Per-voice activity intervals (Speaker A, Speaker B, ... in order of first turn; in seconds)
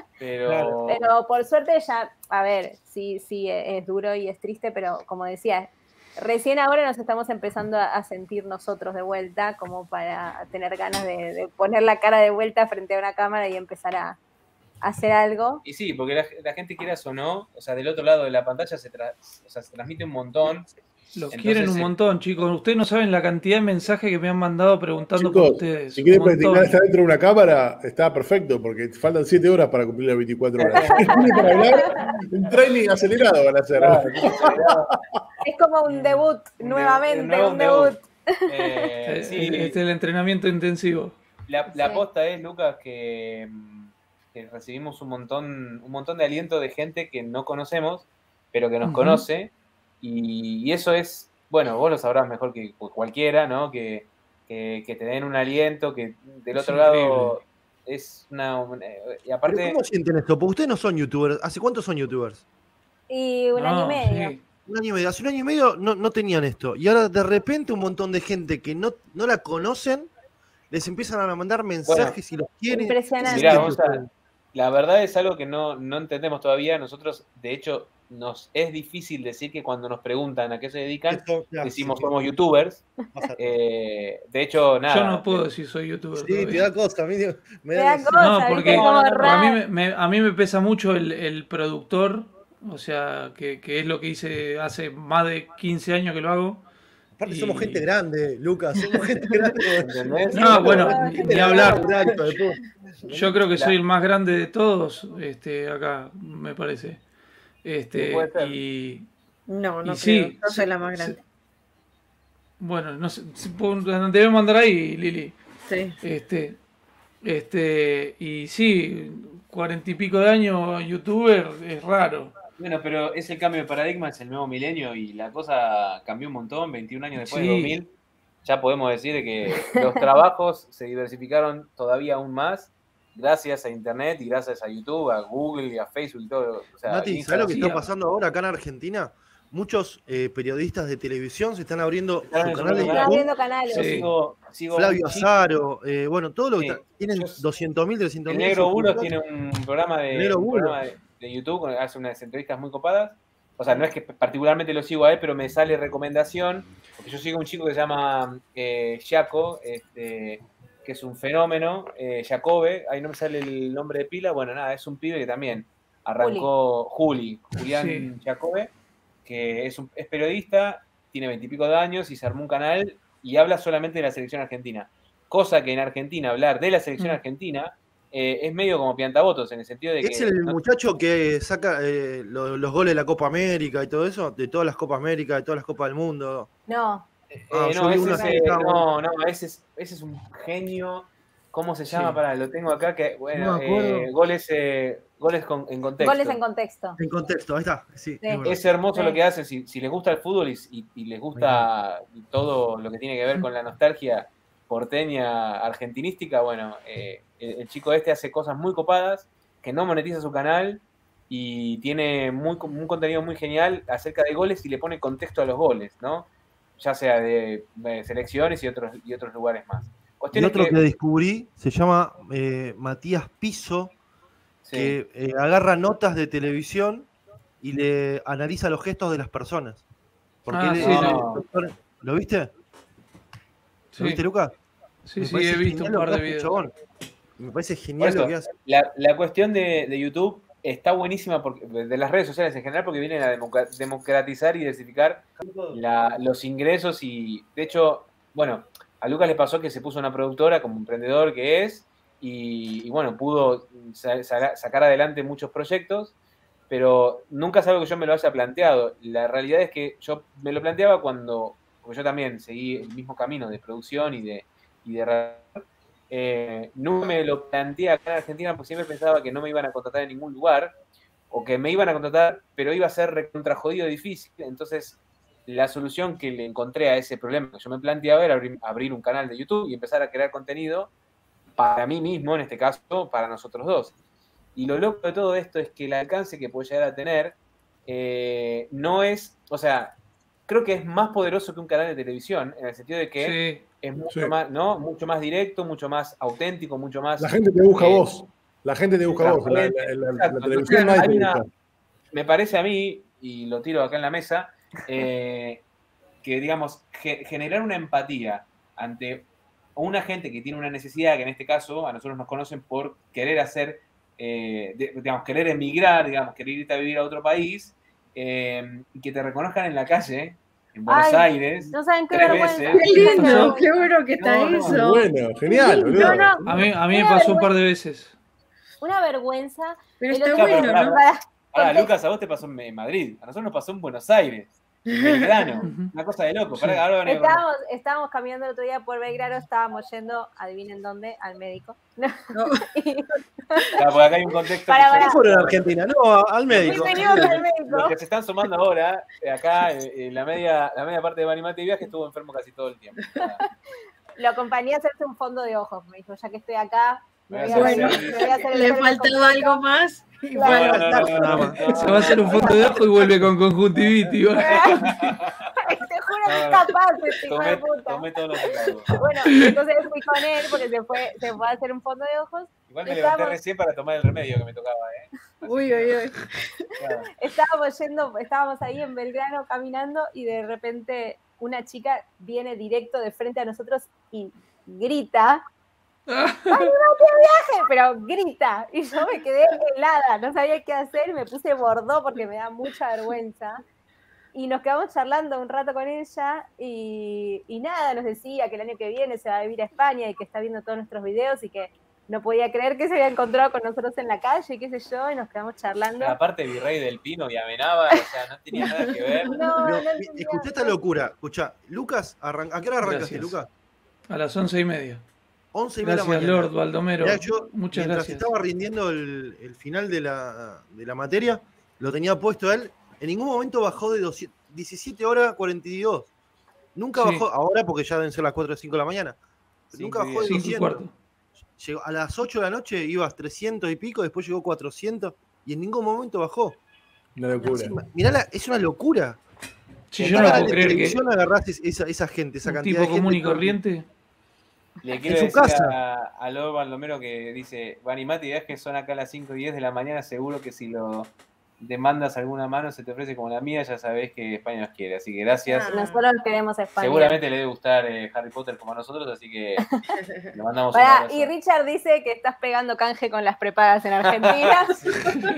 Speaker A: 0.2-1.1, 15.6-20.7, 21.3-21.9, 30.6-31.6, 33.7-34.9, 36.6-39.8, 41.5-59.8, 71.8-72.2, 73.2-74.0, 74.5-82.8, 83.4-85.5, 99.8-100.9, 107.9-108.5, 122.6-127.9, 128.4-137.8, 142.2-143.1, 143.7-145.3, 146.6-147.4, 148.3-168.7, 169.2-180.6, 187.3-196.4, 198.4-220.8, 224.6-224.9, 230.8-231.4, 238.0-256.1, 256.7-270.7, 271.3-280.9, 281.6-283.9, 284.6-289.9, 290.5-298.0, 299.1-301.4, 302.1-305.6, 306.2-323.5, 324.2-324.8, 330.3-331.0, 331.5-337.4, 343.8-345.6, 346.5-353.4, 357.3-358.4, 360.4-362.7, 364.4-365.4, 366.2-366.7, 367.2-369.0, 372.7-376.0, 376.8-377.1, 406.0-409.3, 429.7-430.3, 440.0-440.9, 444.8-455.7, 456.8-459.6, 460.3-461.3, 464.0-465.2
Speaker B: 0.4-0.8, 59.5-62.4, 64.7-70.1, 70.7-74.1, 81.1-82.1, 83.1-83.5, 86.2-88.8, 97.2-103.4, 136.9-143.3, 144.7-149.1, 150.1-150.8, 180.0-186.5, 187.5-188.8, 193.3-194.1, 197.0-198.6, 201.3-201.7, 220.3-223.9, 224.7-227.1, 227.6-229.8, 230.4-232.5, 234.0-234.5, 235.2-236.7, 237.4-238.5, 245.4-245.8, 344.9-347.4, 360.5-361.6, 409.6-413.5, 415.5-426.1, 426.7-429.2, 429.7-430.9, 431.6-436.6, 437.4-439.2, 440.0-443.6, 445.1-445.8
Speaker C: 0.9-14.2, 14.8-15.6, 31.3-31.9, 35.4-38.8, 41.7-42.0, 63.1-64.3, 72.7-73.7, 87.7-89.6, 100.4-101.9, 142.8-143.9, 166.2-166.5, 186.7-187.1, 187.9-188.4, 196.0-197.0, 198.2-199.2, 320.9-323.8, 325.6-327.5, 328.8-331.9, 337.1-343.6, 344.7-345.2, 346.6-348.0, 354.2-359.6, 360.3-360.7, 364.4-364.8, 365.6-368.0, 368.9-373.4, 377.2-385.4, 386.5-393.6, 394.3-406.1, 409.3-410.7, 455.7-457.2, 460.7-465.1
Speaker D: 21.1-26.7, 35.9-36.2, 39.0-41.2, 48.8-49.2, 56.5-57.3, 63.5-64.4, 84.9-86.7, 88.1-96.6, 97.2-97.8, 100.3-101.8, 103.1-107.0, 107.6-109.1, 109.8-111.2, 112.6-115.4, 116.0-116.6, 117.2-122.3, 127.2-127.8, 143.7-144.1, 167.6-168.1, 191.9-192.2, 230.5-231.2, 233.9-234.2, 235.1-236.5, 293.2-293.6, 323.1-323.5, 326.4-328.1, 335.6-335.9, 361.6-365.1, 369.3-369.5, 386.1-386.7, 412.8-413.4, 414.1-415.0, 415.8-418.3, 426.9-427.2, 430.3-430.9, 439.9-441.0, 442.4-443.9
Speaker E: 25.1-35.2, 297.2-301.4, 324.7-326.6, 437.1-437.8
Speaker F: 101.8-102.2, 109.5-111.2, 115.7-116.0, 300.7-300.9, 322.2-326.3, 330.0-331.0, 334.9-335.3, 342.3-342.6, 357.4-361.3, 361.9-362.7, 375.4-376.6, 409.2-409.5, 455.5-456.0